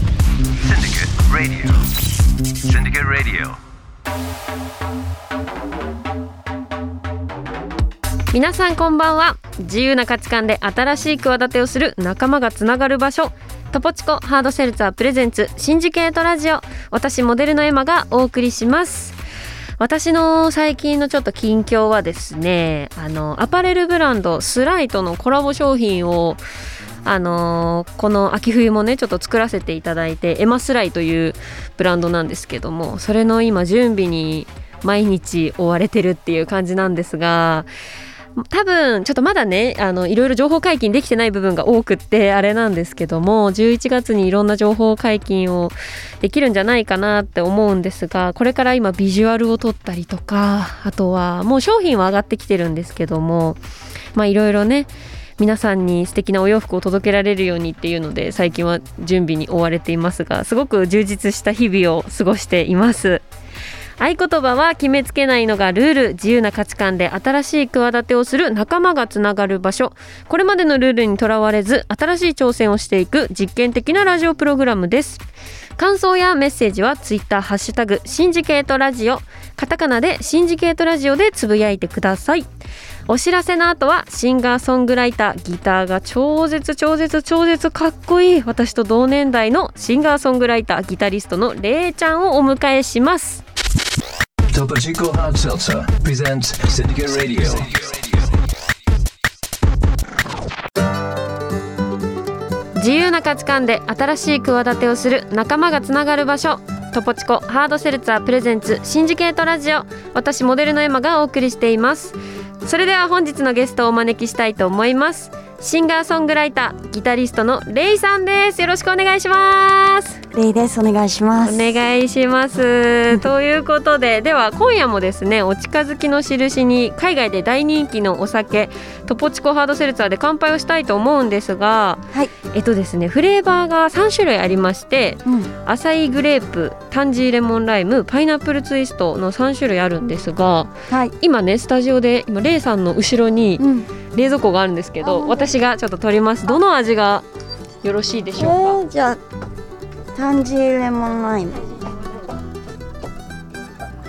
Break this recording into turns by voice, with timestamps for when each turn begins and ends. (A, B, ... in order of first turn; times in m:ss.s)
0:00.6-0:01.8 A
0:02.6-0:03.6 A
0:08.3-0:19.2 B
0:19.8-0:26.4 B
0:27.0-0:37.7 B
0:38.4-0:53.6 B
0:54.1-1:03.2 B
1:04.0-1:15.3 B
1:15.8-1:22.5 B
1:23.1-1:33.4 B
1:34.5-1:38.1 A
1:42.8-2:00.2 B
2:00.3-2:01.7 C
2:01.4-2:27.3 B
2:15.2-2:15.5 C
2:20.9-2:21.1 C
2:23.6-2:23.9 C
2:25.0-2:25.5 C
2:27.8-2:28.8 B
2:28.4-2:29.2 C
2:30.1-2:31.6 C
2:31.6-2:32.3 B